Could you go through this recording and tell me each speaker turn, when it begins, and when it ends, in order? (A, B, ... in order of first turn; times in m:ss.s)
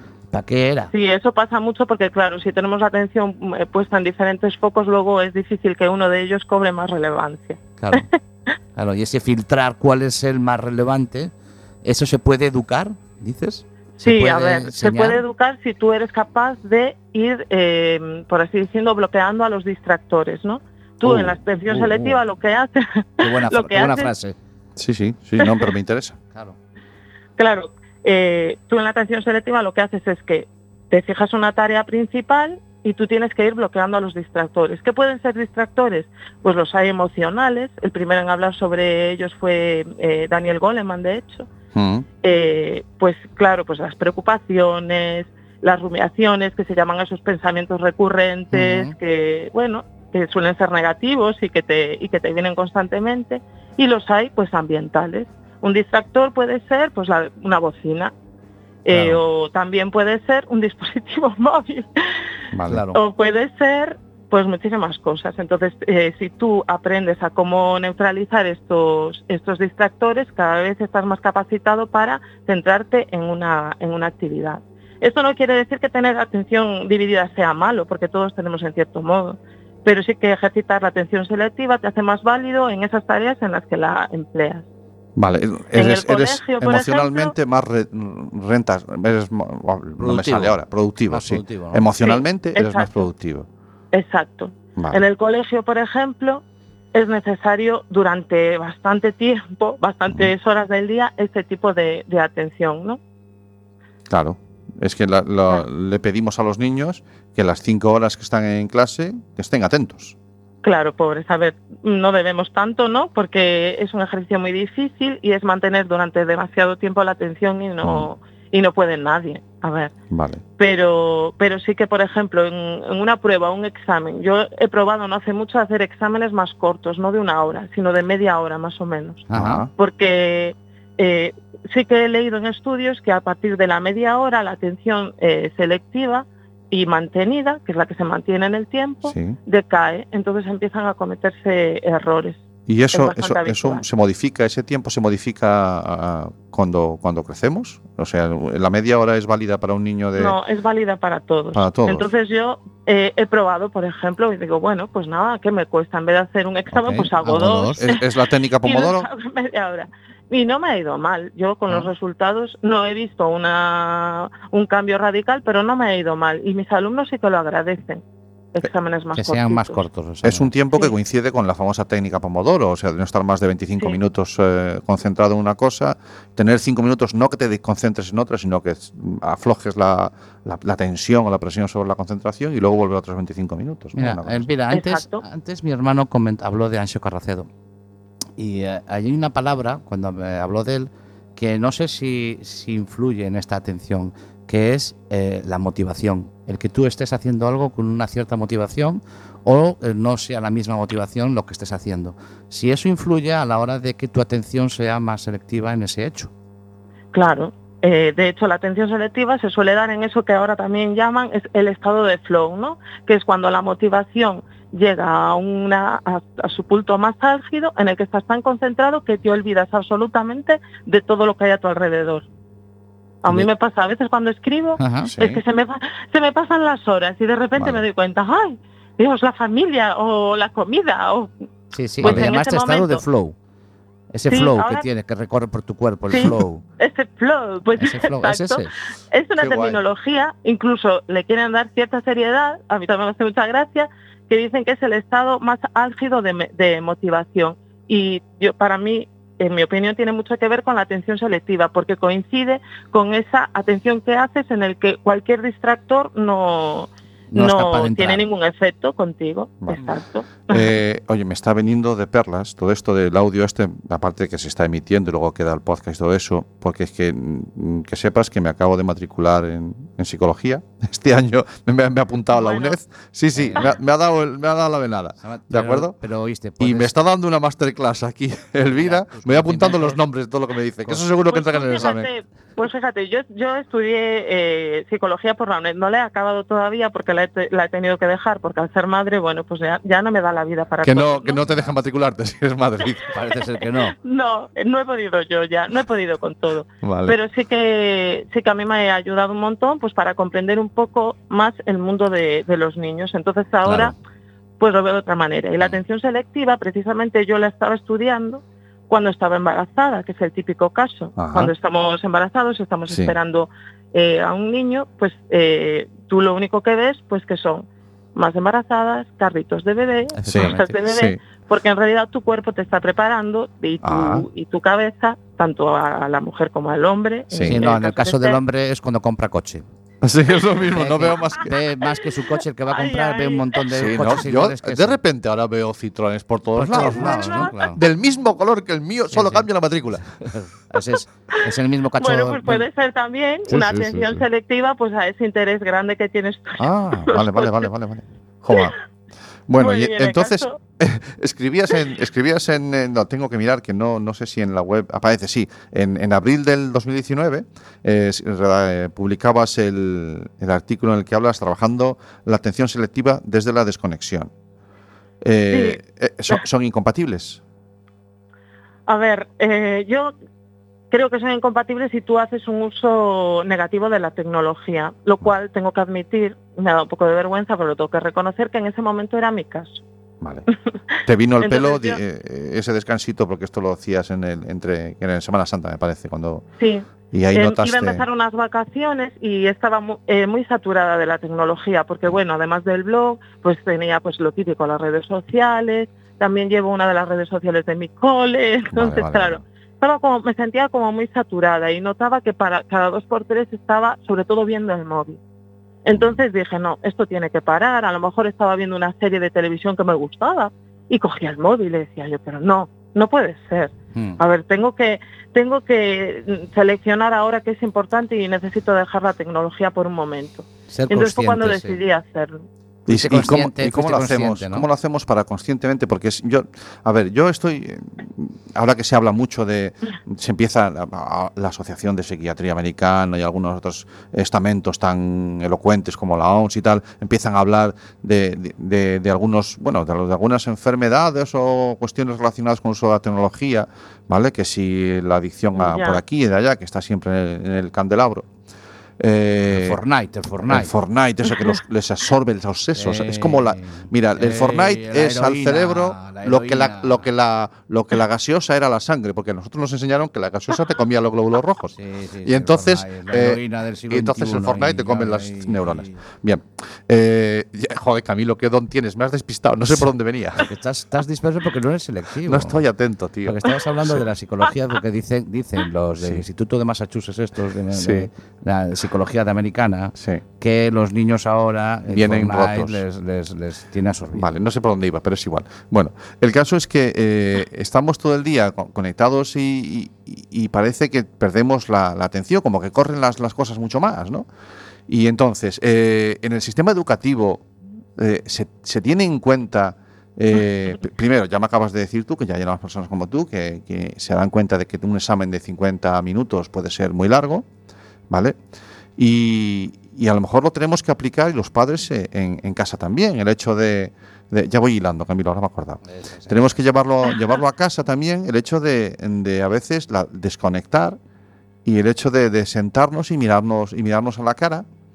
0:00.3-0:00.9 A
0:00.9-0:08.1 B
0:07.8-0:08.1 A
0:08.8-0:11.3 A
0:11.8-0:15.2 A
0:14.0-0:24.1 B
0:21.0-0:21.4 C
0:21.7-0:22.2 A
0:23.2-0:24.4 A
0:24.8-0:26.2 C
0:27.4-0:41.5 B
0:41.7-0:42.1 C
0:42.2-0:58.1 B
0:48.5-0:49.0 A
0:58.9-1:01.9 B
0:58.9-0:59.2 A
1:02.5-1:02.8 C
1:02.7-1:03.0 A
1:02.9-1:24.7 B
1:25.2-1:33.5 C
1:25.7-1:27.3 B
1:30.0-1:30.6 A
1:31.1-1:31.9 A
1:32.0-1:33.0 B
1:33.9-1:43.0 B
1:34.8-1:35.0 C
1:44.1-1:50.2 C
1:50.6-1:59.9 B
1:57.8-1:58.1 C
2:00.1-2:00.4 C
2:00.6-2:22.4 B
2:09.3-2:09.6 A
2:09.3-2:09.7 C
2:19.1-2:19.4 C
2:22.7-2:30.4 C
2:22.9-2:23.8 B
2:30.2-2:49.8 B
2:31.5-2:32.1 C
2:36.7-2:37.8 A
2:37.8-2:39.1 C
2:49.2-2:50.5 A
2:50.2-3:04.5 C
3:04.0-3:07.5 A
3:04.7-3:05.2 B
3:08.4-3:26.3 A
3:27.1-3:42.3 B
3:43.2-3:51.3 B
3:44.8-3:45.1 A
3:45.0-3:45.4 C
3:47.6-3:47.8 C
3:51.7-3:53.4 A
3:52.0-3:52.3 C
3:52.0-3:53.0 B
3:54.1-3:56.6 A
3:54.3-3:54.9 B
3:56.1-4:20.7 B
3:57.8-3:58.8 A
3:59.4-3:59.8 C
4:17.3-4:18.2 A
4:20.5-4:36.0 C
4:32.3-4:32.8 B
4:33.3-4:33.7 A
4:35.2-4:36.9 A
4:36.6-4:42.1 C
4:38.7-4:40.0 A
4:41.2-4:51.5 B
4:50.8-4:53.1 C
4:53.1-4:54.0 A
4:53.6-5:04.0 B
4:56.8-4:57.2 C
5:03.7-5:03.9 C
5:04.6-5:28.4 B
5:11.2-5:11.5 C
5:12.9-5:13.1 C
5:20.2-5:20.8 A
5:20.3-5:21.2 C
5:23.8-5:24.3 C
5:27.3-5:27.6 C
5:27.5-5:29.6 A
5:30.0-5:31.5 C
5:30.7-5:35.0 A
5:32.7-5:34.2 B
5:33.7-5:40.1 C
5:36.6-5:37.8 A
5:36.7-5:37.6 B
5:39.1-5:39.5 A
5:40.2-5:42.7 A
5:42.0-5:47.7 B
5:43.5-5:44.1 A
5:46.6-5:48.8 C
5:49.5-6:04.3 C
5:49.6-5:50.6 B
6:05.2-6:07.4 C
6:05.5-6:06.4 B
6:08.9-6:10.2 B
6:10.9-6:19.8 B
6:20.2-6:20.5 C
6:21.0-6:22.0 B
6:21.0-6:26.4 C
6:26.6-6:45.2 B
6:27.1-6:28.0 C
6:38.7-6:39.4 C
6:45.8-7:02.5 B
6:45.9-6:46.2 C
6:53.9-6:54.2 A
7:00.7-7:01.8 A
7:02.9-7:28.3 C
7:02.9-7:04.7 A
7:25.6-7:26.0 B
7:29.0-7:29.8 C
7:29.5-7:30.7 A
7:30.5-7:50.5 C
7:32.8-7:37.1 A
7:41.8-7:46.0 A
7:50.4-7:52.6 A
7:52.2-7:54.0 C
7:53.2-8:04.3 A
7:57.7-7:58.1 C
8:00.0-8:00.2 C
8:01.9-8:02.8 C
8:04.1-8:14.3 C
8:14.9-8:17.4 C
8:18.0-8:27.5 C
8:28.1-8:28.4 C
8:29.0-8:41.0 C
8:35.8-8:36.5 A
8:41.6-8:44.7 C